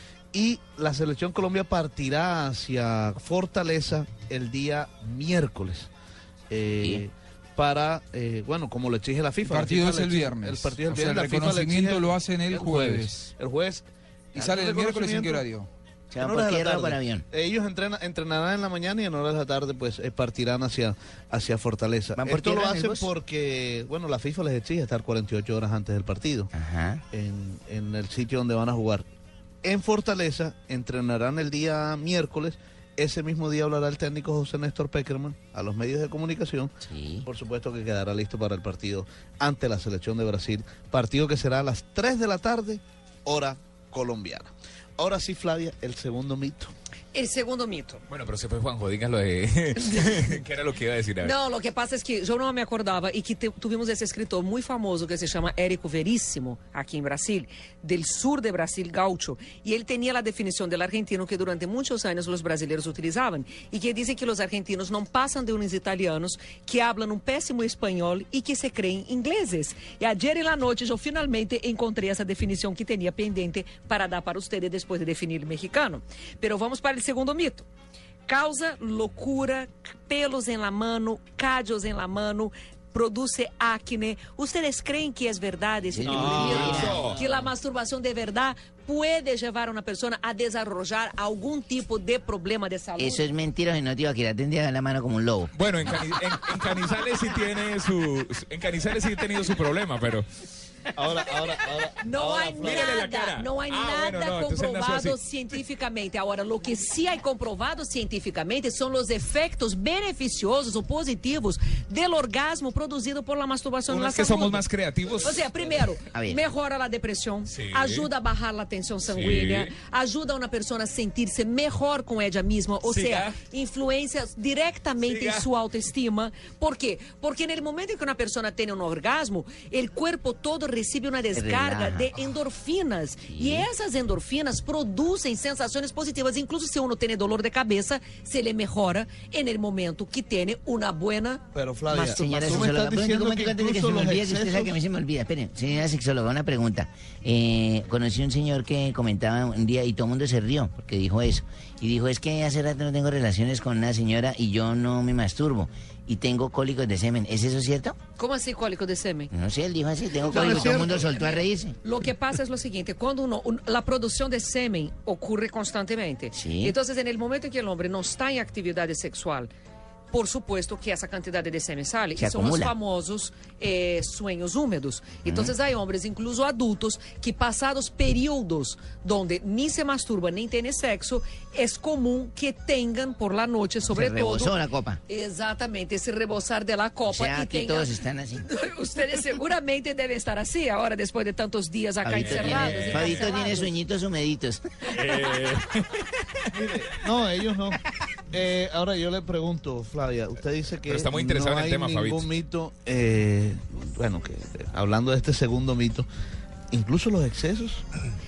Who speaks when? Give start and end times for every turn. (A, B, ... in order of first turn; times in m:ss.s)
0:00.3-0:05.9 A
0:06.5-0:15.4 A
0:09.4-0:13.3 B
0:14.4-0:15.7 B
0:16.1-0:17.2 C
0:16.2-0:26.5 A
0:22.2-0:23.1 C
0:26.5-0:27.0 C
0:27.1-0:29.0 A
0:29.6-0:36.7 A
0:36.8-0:37.2 C
0:37.2-0:46.7 A
0:47.1-0:48.0 D
0:48.1-0:51.3 E
0:49.8-0:50.4 D
0:51.2-1:17.7 D
1:18.3-1:33.3 D
1:25.9-1:27.1 C
1:26.1-1:27.2 E
1:26.1-1:27.2 A
1:33.0-1:35.5 C
1:35.5-1:40.2 E
1:40.9-1:42.9 A
1:42.0-1:54.6 D
1:42.6-1:45.2 E
1:53.9-1:55.7 E
1:55.2-2:22.6 D
1:56.1-1:56.4 C
1:57.5-1:58.1 E
1:59.1-1:59.7 E
2:02.8-2:03.4 E
2:05.0-2:05.5 E
2:11.3-2:12.1 C
2:13.3-2:13.7 C
2:21.5-2:24.7 A
2:22.0-2:38.0 C
2:38.2-2:39.3 D
2:39.3-2:41.7 C
2:40.2-2:41.1 A
2:40.3-2:49.5 D
2:46.3-2:46.7 C
2:50.1-3:04.6 D
2:52.2-2:52.7 C
2:55.2-2:55.5 C
3:03.8-3:05.0 C
3:05.1-3:07.9 D
3:07.1-3:08.4 C
3:08.4-3:13.7 D
3:12.0-3:14.6 C
3:12.2-3:13.3 E
3:14.9-3:16.0 E
3:16.5-3:17.8 A
3:18.3-3:26.1 A
3:20.9-3:22.3 E
3:26.7-3:27.8 A